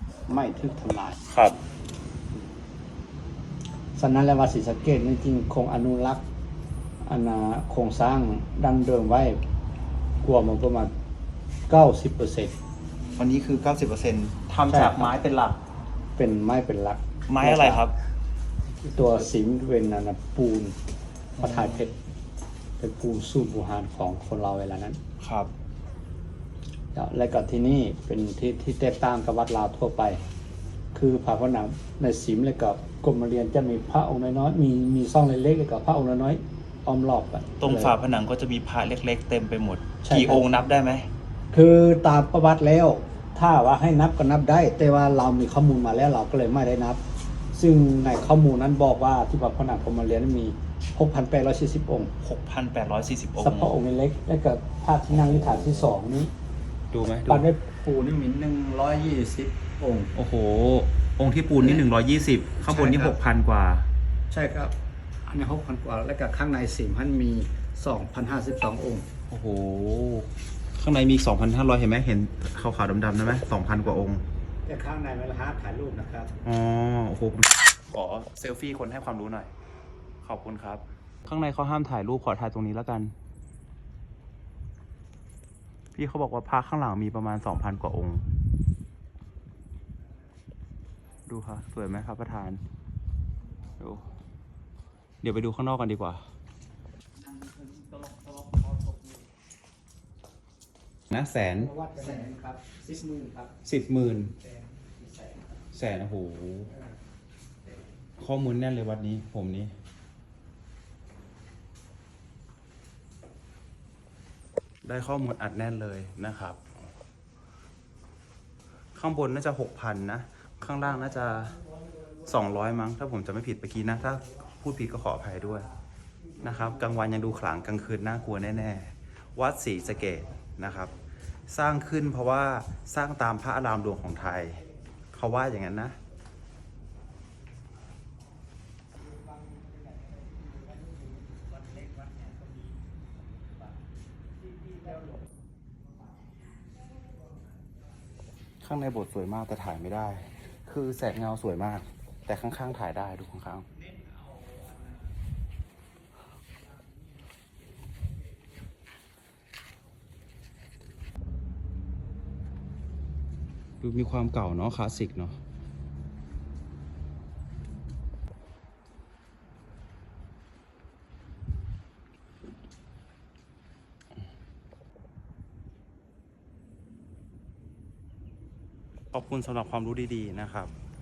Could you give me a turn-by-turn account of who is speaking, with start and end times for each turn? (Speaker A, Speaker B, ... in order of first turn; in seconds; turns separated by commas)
Speaker A: 0.3-1.2, Speaker B: 1.3-1.6, Speaker A: 4.0-6.2, Speaker A: 7.0-9.4, Speaker A: 10.2-10.9, Speaker A: 11.7-12.6, Speaker B: 13.2-15.6, Speaker A: 14.7-15.2, Speaker A: 16.2-17.9, Speaker B: 17.3-17.9, Speaker A: 18.9-20.8, Speaker B: 21.4-21.9, Speaker A: 21.4-21.9, Speaker A: 22.8-25.0, Speaker B: 25.2-25.5, Speaker A: 26.9-30.2, Speaker A: 30.9-37.9, Speaker B: 37.6-41.1, Speaker A: 40.0-40.5, Speaker A: 41.5-47.0, Speaker A: 47.5-52.1, Speaker B: 52.2-53.7, Speaker A: 53.4-56.3, Speaker B: 55.1-55.9, Speaker B: 56.9-57.4, Speaker A: 57.3-60.1, Speaker B: 60.1-63.9, Speaker A: 61.6-61.8, Speaker A: 62.7-63.2, Speaker A: 64.3-64.7, Speaker A: 65.3-69.1, Speaker B: 69.3-74.2, Speaker A: 74.7-76.3, Speaker B: 76.4-79.5, Speaker B: 80.2-83.1, Speaker B: 86.0-88.2, Speaker B: 91.3-92.6, Speaker B: 95.2-96.2, Speaker B: 101.1-101.7, Speaker A: 101.6-103.6, Speaker B: 103.7-104.3, Speaker A: 104.8-105.6, Speaker B: 105.7-106.7, Speaker B: 108.2-109.7, Speaker B: 114.8-116.6, Speaker B: 119.0-121.6, Speaker B: 122.2-125.7, Speaker B: 126.4-130.9, Speaker B: 131.5-136.0, Speaker B: 148.6-153.7, Speaker B: 163.8-165.4, Speaker B: 179.1-180.7